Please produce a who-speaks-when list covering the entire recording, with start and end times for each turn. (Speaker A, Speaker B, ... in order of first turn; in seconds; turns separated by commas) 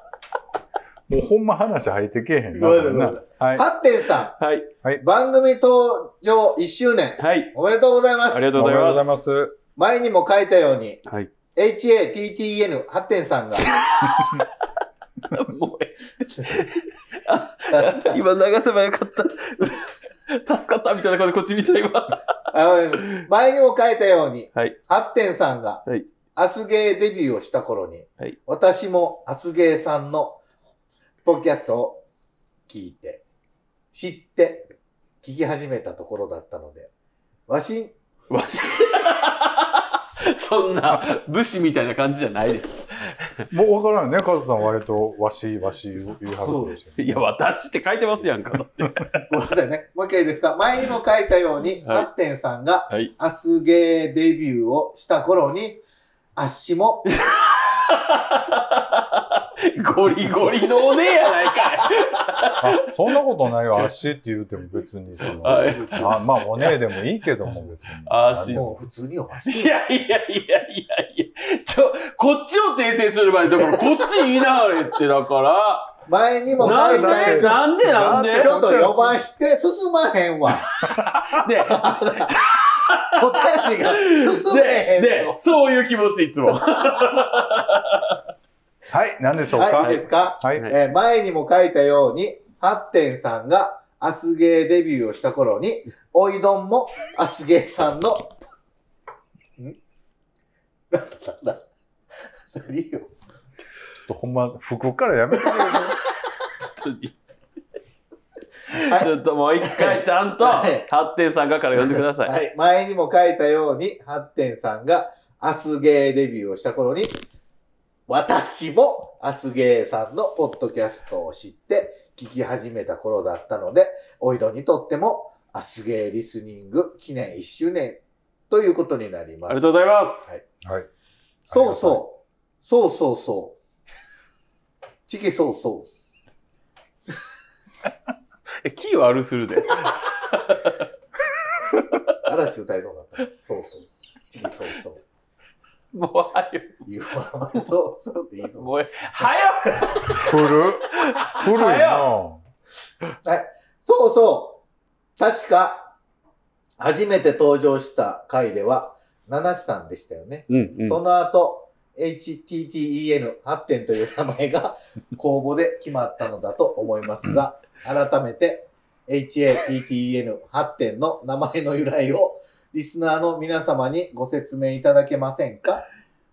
Speaker A: 1.1-3.6, Speaker B: 2.5-4.4, Speaker C: 4.4-4.7, Speaker B: 5.0-8.6, Speaker C: 7.2-7.5, Speaker C: 8.3-9.2, Speaker A: 8.5-9.5, Speaker B: 9.7-11.0, Speaker B: 11.5-13.7, Speaker C: 13.8-14.5, Speaker C: 15.3-22.2, Speaker B: 17.7-18.2, Speaker B: 22.5-30.4, Speaker C: 23.0-23.2, Speaker B: 31.2-32.0, Speaker B: 32.7-33.2, Speaker B: 33.9-34.7, Speaker B: 35.2-36.9, Speaker B: 37.5-37.9, Speaker C: 38.3-43.4, Speaker A: 43.5-47.2, Speaker B: 46.4-46.7, Speaker C: 47.0-49.1, Speaker B: 49.2-55.8, Speaker C: 51.8-52.1, Speaker B: 56.4-57.1, Speaker C: 57.1-62.7, Speaker A: 62.6-68.8, Speaker B: 65.2-66.1, Speaker C: 65.2-66.8, Speaker C: 68.0-68.8, Speaker B: 68.5-69.8, Speaker C: 69.5-76.0, Speaker B: 73.5-74.4, Speaker B: 76.1-80.7, Speaker A: 76.5-79.2, Speaker C: 76.6-78.5, Speaker A: 80.8-81.4, Speaker C: 81.3-88.2, Speaker B: 81.6-82.3, Speaker B: 83.0-85.4, Speaker A: 88.9-90.7, Speaker B: 89.5-98.3, Speaker B: 100.9-101.6, Speaker B: 102.5-103.1, Speaker A: 103.9-106.0, Speaker B: 105.4-106.0, Speaker C: 106.6-107.1, Speaker C: 108.7-112.3, Speaker B: 108.7-110.9, Speaker B: 111.8-117.2, Speaker B: 118.1-129.7, Speaker C: 129.5-130.3, Speaker A: 130.6-130.9, Speaker A: 131.5-132.0, Speaker B: 131.5-133.6, Speaker B: 135.1-135.9, Speaker C: 138.6-140.8, Speaker C: 141.7-142.0, Speaker B: 142.2-145.0, Speaker C: 145.9-146.9, Speaker B: 146.8-150.2, Speaker C: 148.6-152.1, Speaker A: 150.1-152.4, Speaker B: 153.2-154.6, Speaker B: 155.2-155.9, Speaker B: 156.8-175.9, Speaker C: 160.5-161.0